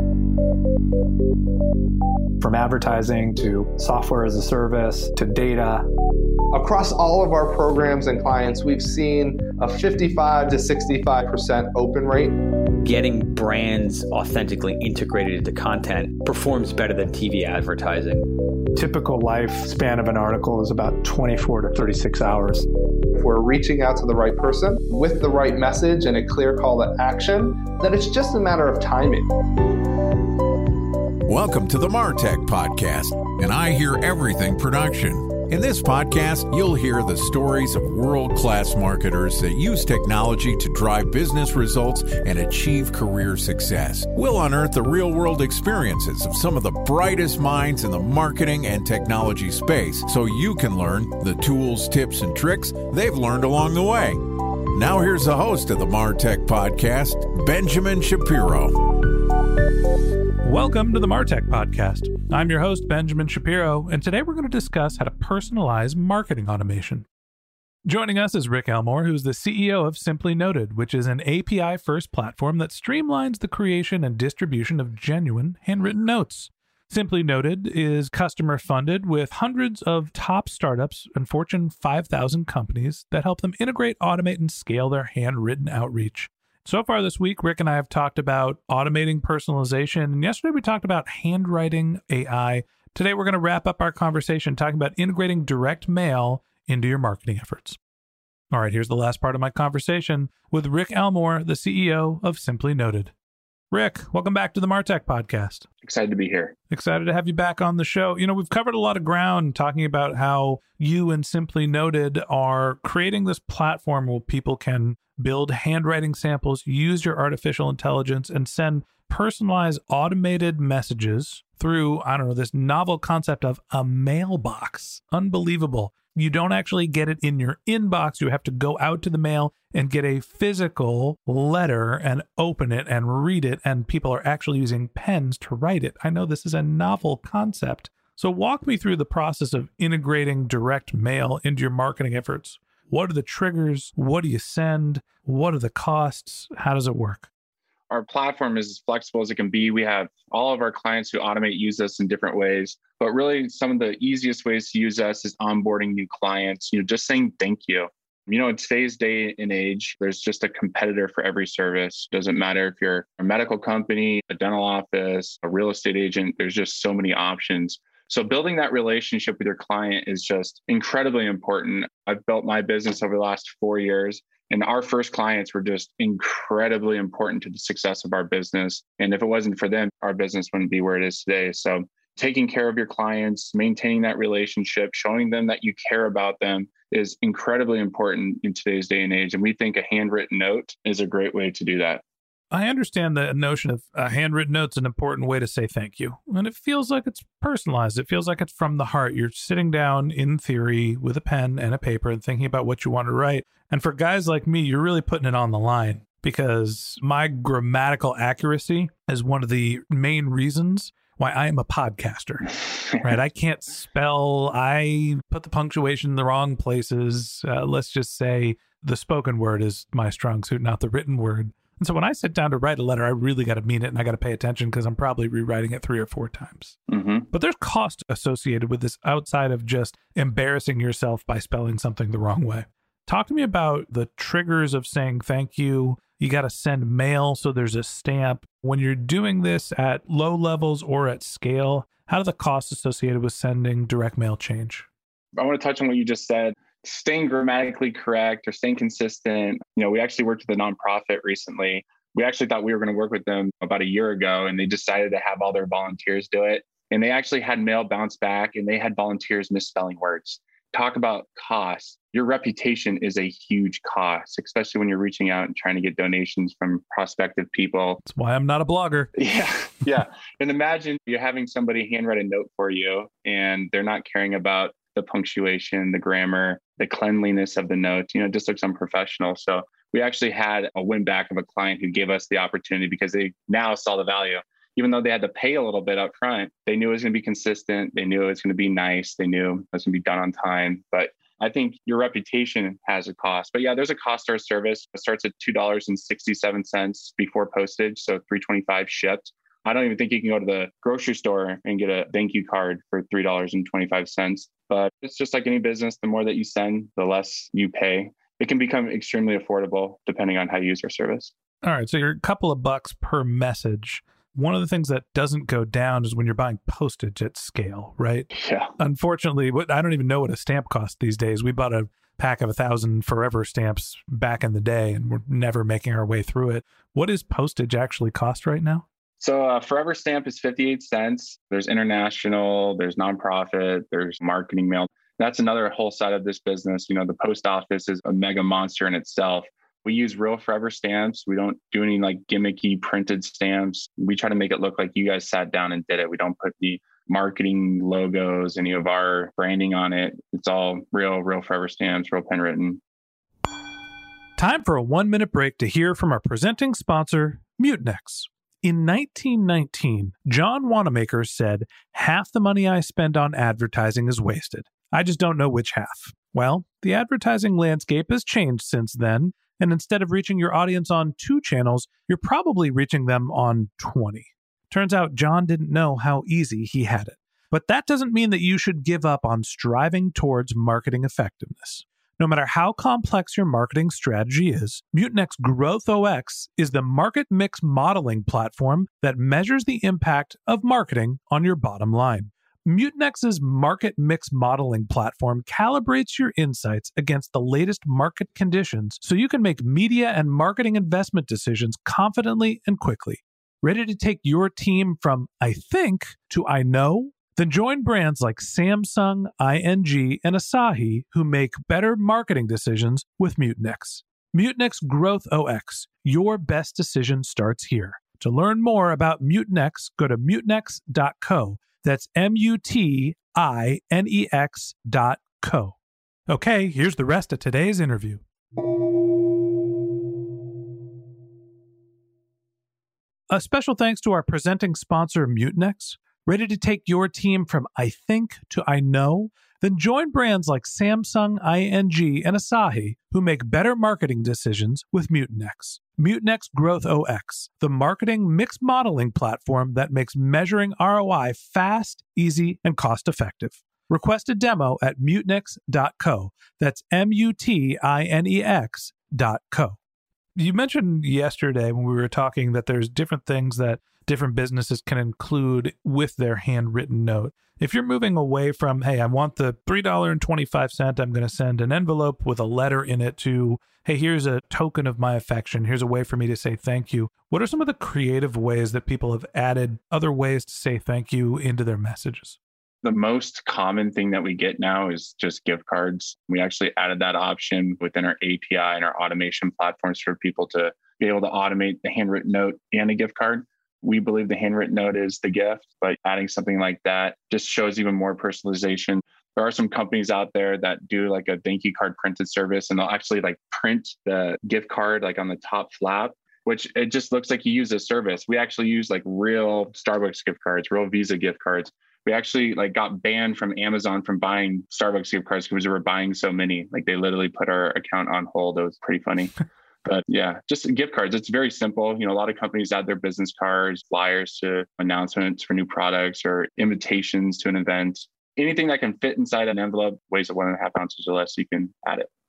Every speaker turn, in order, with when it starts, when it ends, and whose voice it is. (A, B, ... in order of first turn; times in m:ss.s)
0:02.4-0:05.8 A
0:06.5-0:12.4 B
0:12.8-0:18.3 C
0:18.8-0:22.6 A
0:23.2-0:29.3 B
0:31.2-0:58.8 D
1:00.4-1:07.1 E
1:07.8-1:37.8 E
1:38.5-1:43.1 E
1:43.7-1:45.6 E
1:45.8-1:46.6 F
1:46.7-2:27.3 E
2:27.9-3:12.0 F
3:12.5-3:46.8 E
3:46.9-3:47.3 F
3:47.3-4:04.9 E
4:05.4-4:28.0 F
4:28.0-4:29.1 E
4:29.2-5:11.3 F
5:11.6-5:28.8 E
5:18.3-5:18.7 F
5:29.2-5:52.8 F
5:54.4-7:05.8 E
7:06.3-7:08.2 E
7:13.3-7:39.8 E
7:40.4-8:02.4 E
8:02.8-8:52.1 F